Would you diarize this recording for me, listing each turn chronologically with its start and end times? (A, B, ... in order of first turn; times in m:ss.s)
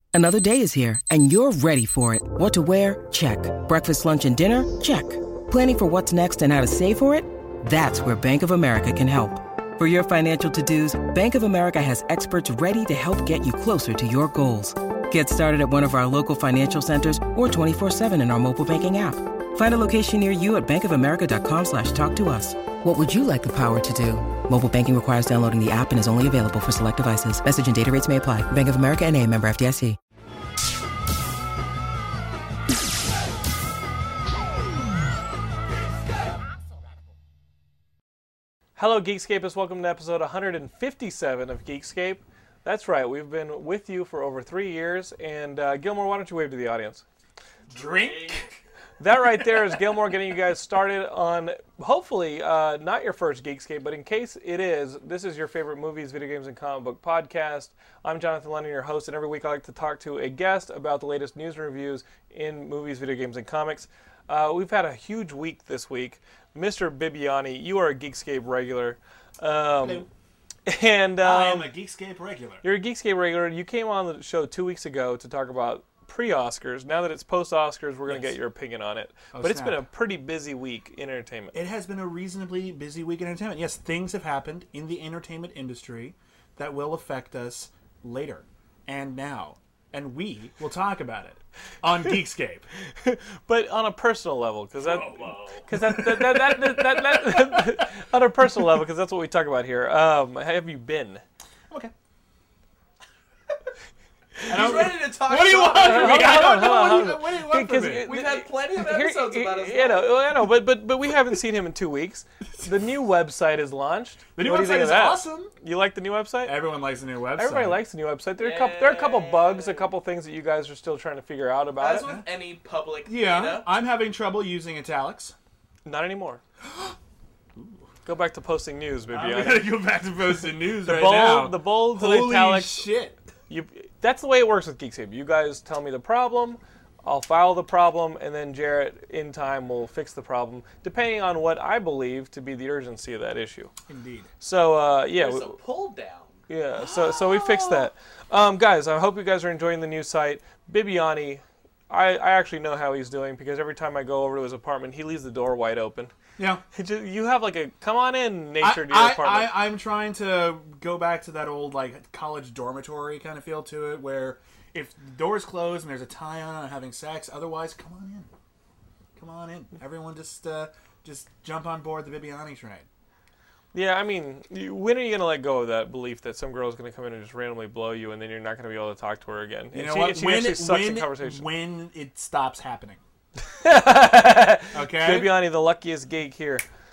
0:00.1-0:30.0 A
0:38.8-0:47.0 B
0:47.7-0:48.5 C
0:47.7-0:48.6 D
0:49.0-1:10.1 B
0:49.4-0:49.6 C
1:10.7-1:11.7 B
1:11.2-1:12.6 C
1:12.6-1:21.6 B
1:18.1-1:18.4 C
1:19.3-1:19.8 C
1:21.5-1:32.6 C
1:33.0-1:41.2 B
1:34.8-1:35.7 D
1:35.7-1:37.8 C
1:44.5-1:44.9 B
1:44.5-1:48.1 C
1:44.5-1:46.7 D
1:45.7-1:56.6 B
1:48.0-1:50.2 D
1:54.4-1:55.5 C
1:56.4-1:57.8 C
1:57.4-2:02.1 B
1:58.4-1:59.9 D
2:01.8-2:03.7 D
2:02.0-2:02.3 C
2:03.1-2:05.4 C
2:05.8-2:06.4 B
2:06.6-2:07.0 C
2:08.0-2:09.8 B
2:09.1-2:13.2 C
2:10.8-2:12.9 B
2:13.5-2:23.7 B
2:23.9-2:24.3 C
2:24.4-2:25.6 B
2:25.2-2:26.4 D
2:26.5-2:36.1 B
2:26.8-2:27.9 C
2:36.4-2:36.6 C
2:36.7-2:39.6 B
2:38.6-2:48.3 C
2:49.2-2:52.9 C
2:53.7-3:01.5 B
2:59.7-3:03.0 C
3:03.6-3:06.6 B
3:04.7-3:05.3 C